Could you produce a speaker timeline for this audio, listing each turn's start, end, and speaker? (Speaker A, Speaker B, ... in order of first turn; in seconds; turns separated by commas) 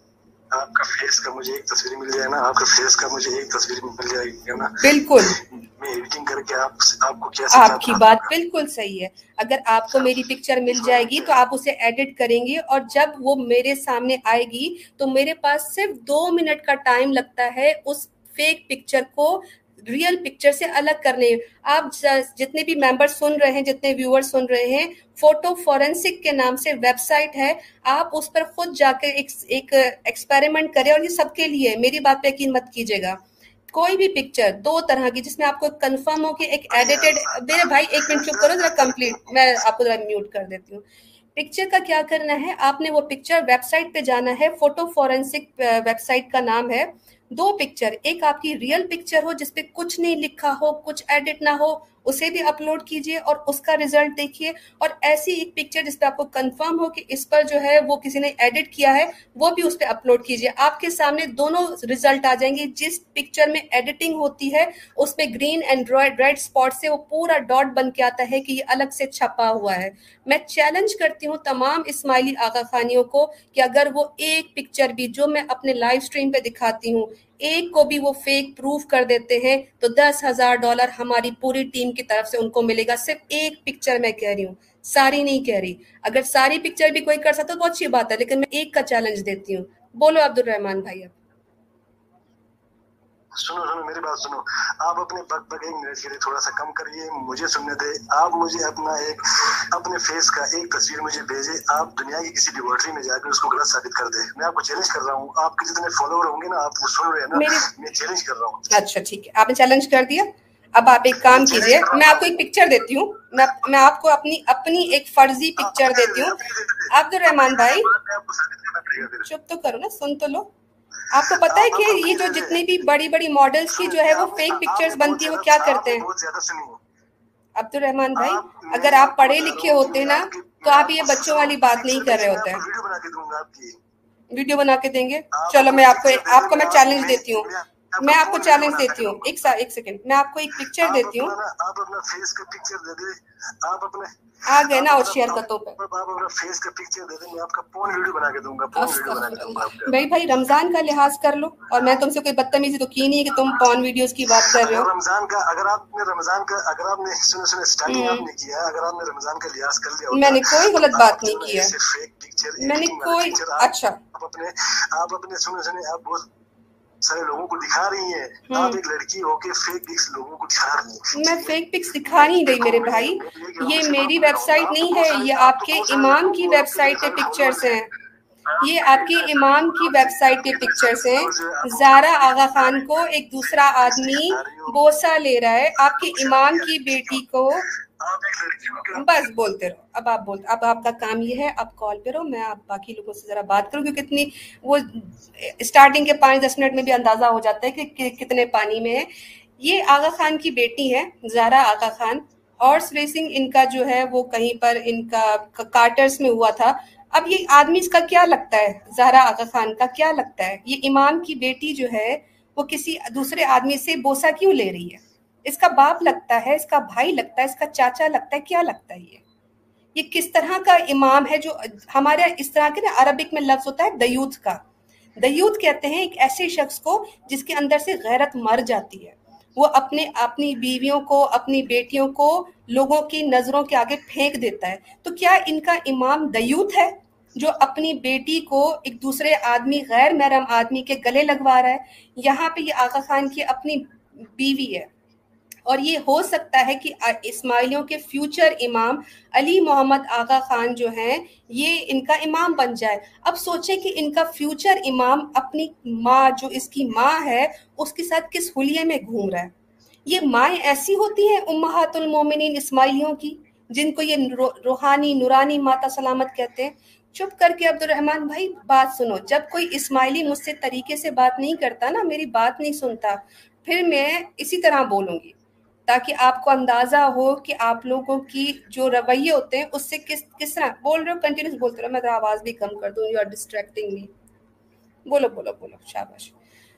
Speaker A: 0.5-8.3, Speaker B: 4.8-5.4, Speaker B: 7.5-33.2, Speaker A: 9.9-11.3, Speaker B: 33.7-40.8, Speaker A: 36.7-39.4, Speaker B: 41.4-91.2, Speaker A: 93.3-108.7, Speaker B: 107.3-107.7, Speaker B: 108.7-116.4, Speaker A: 111.2-112.4, Speaker A: 115.6-119.3, Speaker B: 116.9-117.9, Speaker B: 119.2-120.5, Speaker B: 121.1-126.1, Speaker A: 121.2-122.7, Speaker A: 123.7-126.8, Speaker B: 127.6-132.6, Speaker A: 128.2-133.8, Speaker B: 134.3-141.3, Speaker A: 135.3-139.5, Speaker A: 140.8-150.0, Speaker B: 144.5-145.8, Speaker B: 148.8-154.9, Speaker A: 154.3-166.3, Speaker B: 157.9-158.3, Speaker B: 160.1-161.7, Speaker B: 162.6-164.0, Speaker A: 167.0-177.8, Speaker B: 168.5-168.8, Speaker B: 171.1-177.9, Speaker A: 178.5-184.8, Speaker B: 178.6-187.7, Speaker A: 185.8-189.3, Speaker B: 188.9-199.1, Speaker B: 199.6-219.2, Speaker B: 219.9-224.6, Speaker B: 225.2-244.9, Speaker B: 245.7-259.5, Speaker B: 260.1-275.4, Speaker B: 275.9-284.1, Speaker B: 285.1-286.3